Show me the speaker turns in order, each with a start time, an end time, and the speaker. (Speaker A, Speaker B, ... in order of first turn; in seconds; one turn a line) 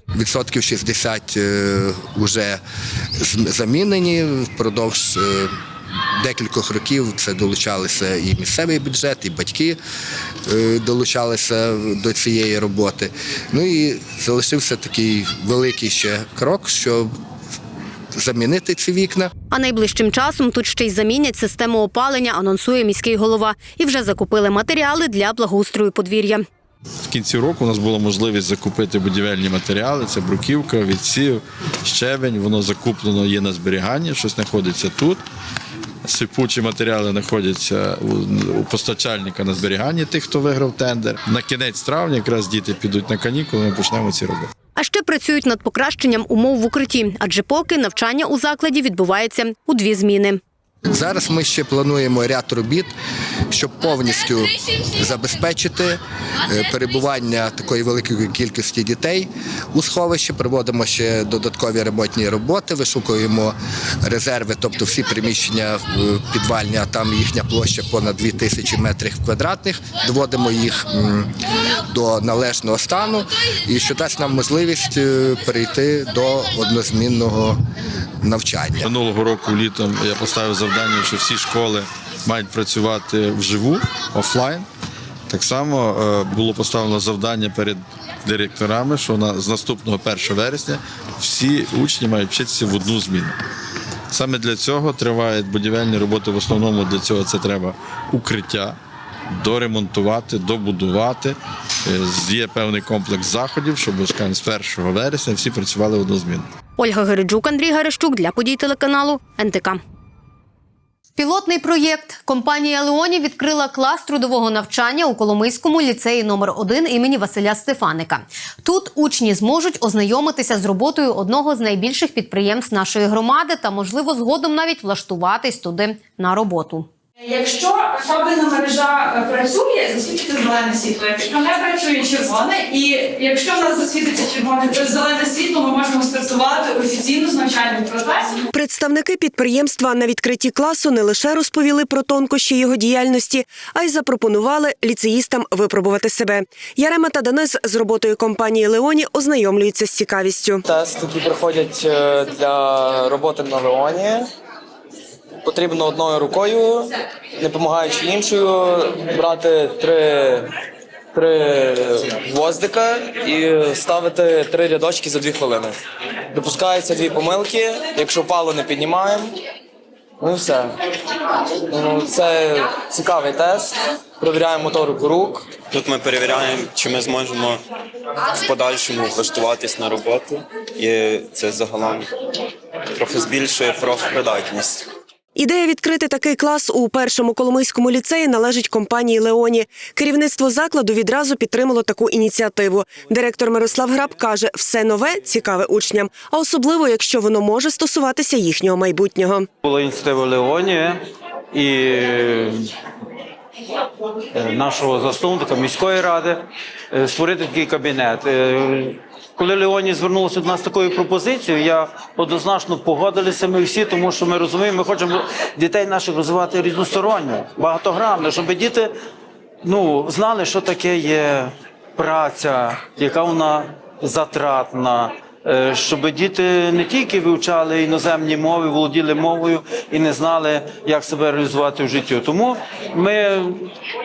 Speaker A: 0.1-2.6
Speaker A: 3.2-5.5
Speaker A: 6.2-9.8
Speaker A: 10.5-17.1
Speaker A: 18.1-19.3
Speaker B: 19.5-26.4
Speaker C: 27.1-35.2
Speaker C: 36.0-44.5
Speaker B: 44.8-50.4
Speaker A: 50.9-52.9
Speaker A: 53.5-71.3
Speaker A: 71.9-77.6
Speaker A: 78.2-78.9
Speaker C: 78.8-84.7
Speaker C: 85.3-93.3
Speaker C: 94.1-98.8
Speaker C: 99.4-106.5
Speaker B: 106.8-109.8
Speaker B: 111.2-126.9
Speaker D: 127.3-138.4
Speaker E: 138.5-150.6
Speaker F: 150.6-154.3
Speaker F: 155.4-160.5
Speaker F: 161.1-165.8
Speaker F: 166.3-169.3
Speaker F: 170.2-170.7
Speaker F: 171.7-175.5
Speaker G: 175.7-177.5
Speaker G: 178.4-182.0
Speaker G: 183.0-184.8
Speaker E: 185.3-199.5
Speaker H: 199.6-201.0
Speaker H: 201.5-202.7
Speaker H: 204.3-218.9
Speaker H: 219.6-233.7